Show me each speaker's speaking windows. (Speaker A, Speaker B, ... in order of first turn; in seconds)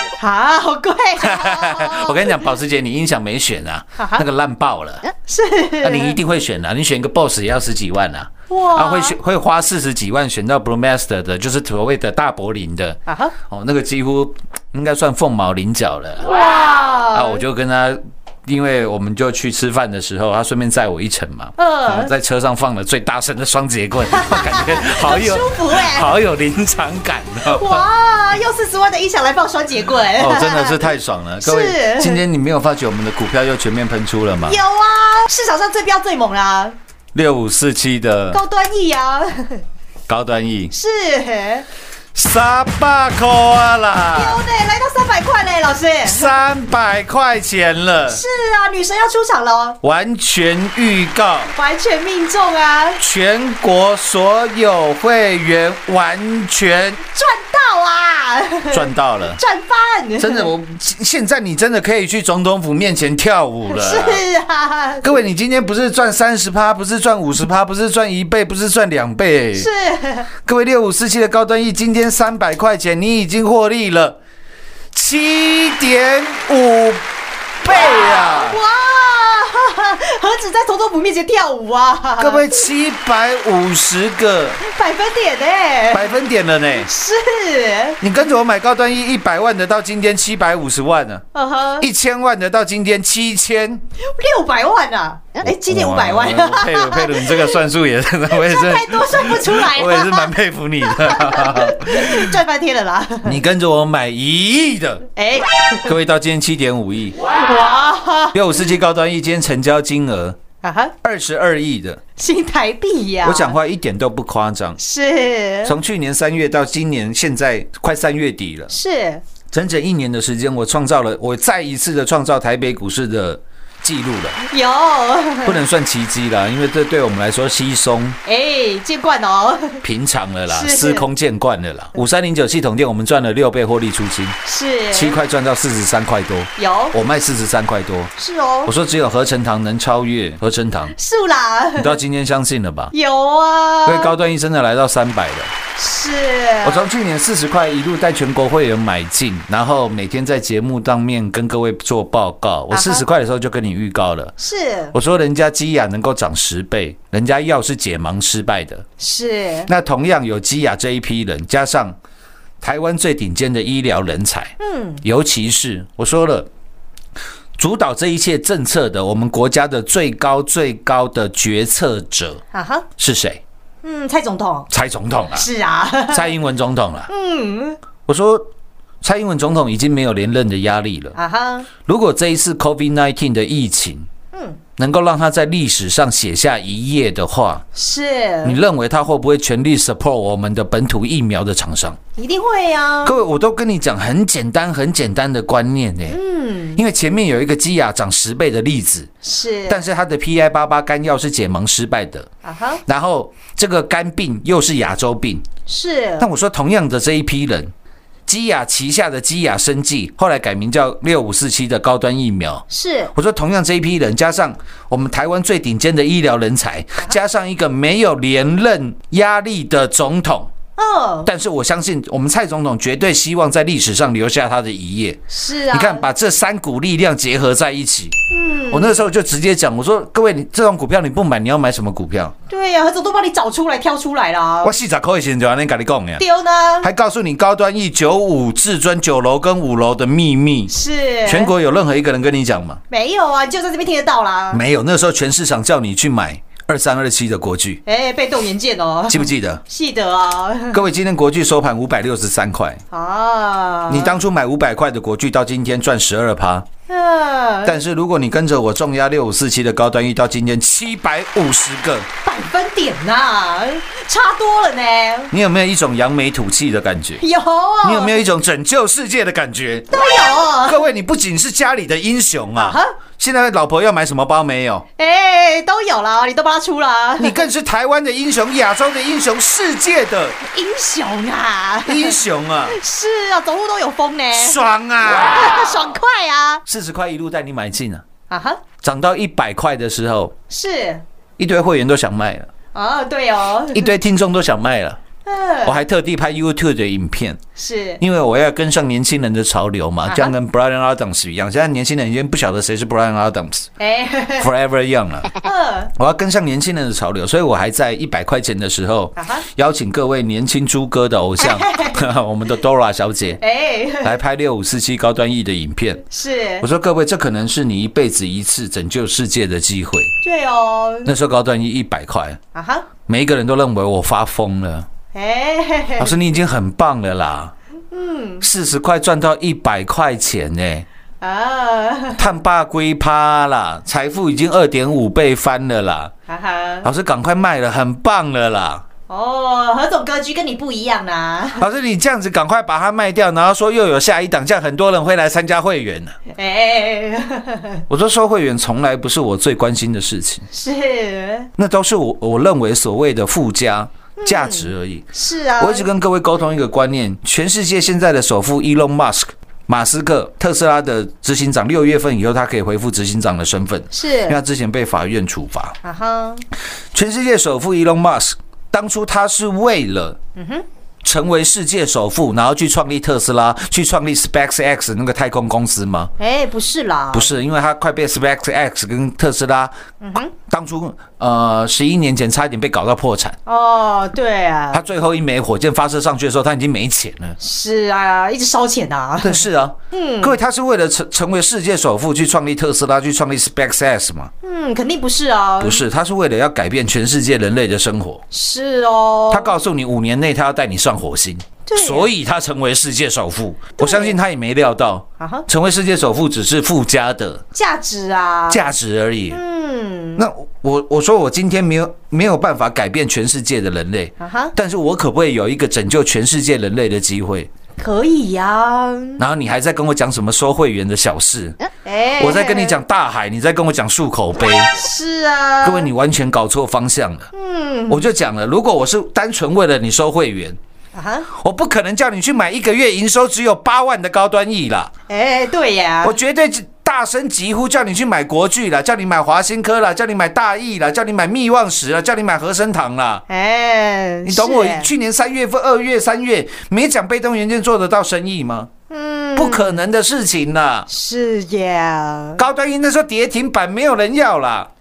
Speaker A: 0.2-2.4, 4.0-4.2, 5.3-6.2, 8.5-9.2, 13.1-13.3, 16.3-17.4, 21.6-22.1, 24.1-26.1, 27.4-30.8, 31.4-32.2, 34.5-36.8, 38.3-39.6, 40.7-41.6, 44.1-46.3, 48.1-49.8, 51.5-53.0, 57.1-60.5, 63.7-65.1, 69.5-70.3, 77.7-82.5, 84.6-86.1, 86.7-88.0, 91.3-91.9, 94.0-97.6, 98.3-100.3, 100.8-103.4, 105.2-105.9, 107.4-108.4, 110.6-110.9, 112.2-113.6, 114.8-115.8, 118.7-119.2, 124.5-125.6, 128.2-129.8, 130.5-131.1, 134.4-135.2, 136.6-136.9, 138.2-138.7, 140.9-142.0, 142.9-144.1, 145.8-146.9, 152.7-153.0, 154.4-154.9, 159.0-159.7, 164.6-165.0, 172.5-172.8, 173.8-174.7, 175.3-176.3, 177.1-177.8, 181.2-181.7, 184.3-184.6, 187.7-188.6, 192.2-193.2, 196.1-196.8, 199.2-199.8, 202.4-202.8, 205.7-206.3, 212.7-213.1, 220.8-221.3, 225.3-226.0, 228.3-229.0, 232.5-234.7, 236.2-236.9, 240.7-241.5, 242.9-244.6, 247.8-250.8, 252.9-254.2, 256.9-257.8, 262.2-265.3, 267.2-268.2, 269.9-270.8, 272.6-272.9, 275.0-277.4, 280.5-284.6, 285.3-286.6, 288.3-288.6, 290.5-291.0, 292.7-293.9, 295.2-295.8, 297.6-298.0, 300.1-300.3, 303.8-304.5, 305.4-305.9, 309.2-309.4, 311.4-312.0, 313.4-314.1, 316.1-316.7, 320.2-321.1, 322.5-322.9, 325.1-326.1, 327.9-328.4, 331.2-332.2, 336.3-336.9, 339.1-341.6, 346.3-347.8, 350.5-351.5, 354.2-355.9, 363.9-364.4, 365.8-366.4, 370.4-370.6, 376.2-377.3, 380.0-380.3, 383.4-384.8, 387.4-390.3, 394.4-395.8, 398.3-399.5, 401.6-402.1, 403.8-404.2, 405.2-405.4, 407.5-408.7, 409.3-410.2, 414.2-414.5, 417.8-419.2, 421.8-422.8, 424.8-425.9, 427.3-428.1, 430.9-431.3, 435.1-436.1, 443.3-444.9, 448.9-449.8, 450.9-452.4
Speaker B: 1.2-5.1, 5.8-16.3, 17.1-27.9, 30.1-34.6, 37.1-38.4, 40.1-40.7, 42.1-44.4, 46.0-48.2, 49.8-51.5, 53.0-57.0, 58.7-59.4, 60.2-64.2, 65.0-69.7, 70.4-74.2, 74.9-77.0, 77.6-78.6, 82.2-84.6, 85.9-86.9, 88.0-91.2, 91.8-93.8, 95.4-102.3, 103.2-105.0, 105.8-107.2, 108.3-110.4, 111.0-112.0, 113.2-114.8, 115.6-118.7, 119.5-124.4, 125.4-128.2, 129.8-134.4, 134.9-138.1, 138.6-140.9, 141.8-142.9, 143.8-145.5, 146.6-154.3, 154.9-158.8, 159.7-162.0, 162.6-166.5, 167.6-172.4, 173.0-173.4, 174.7-175.5, 176.1-177.1, 178.1-178.5, 179.0-181.2, 181.8-184.1, 184.8-187.6, 188.4-192.0, 193.0-196.2, 196.7-199.1, 199.7-202.3, 202.8-205.4, 206.2-207.7, 208.3-220.5, 221.2-232.3, 234.6-236.2, 236.8-240.7, 241.2-242.8, 244.5-247.8, 249.1-249.6, 250.7-252.8, 253.9-256.7, 257.6-262.1, 265.3-267.2, 267.8-270.0, 270.6-274.9, 277.2-280.4, 281.8-282.8, 284.3-285.5, 286.7-288.0, 288.8-290.3, 291.4-292.5, 293.7-295.0, 295.6-297.4, 298.0-303.7, 304.4-305.4, 305.9-313.4, 314.0-316.0, 316.6-320.1, 321.0-322.4, 323.1-324.9, 326.0-327.5, 328.4-330.9, 332.1-336.1, 336.8-338.8, 341.6-346.1, 347.9-350.4, 351.6-365.8, 366.9-370.2, 371.0-376.1, 377.1-379.7, 380.3-383.4, 384.7-387.4, 389.2-394.3, 395.6-398.2, 399.3-407.4, 408.5-409.4, 410.2-417.5, 419.2-421.6, 422.2-424.7, 425.6-427.3, 427.9-430.6, 431.3-434.9, 436.0-443.2, 444.2-448.7, 449.4-450.9, 452.4-454.7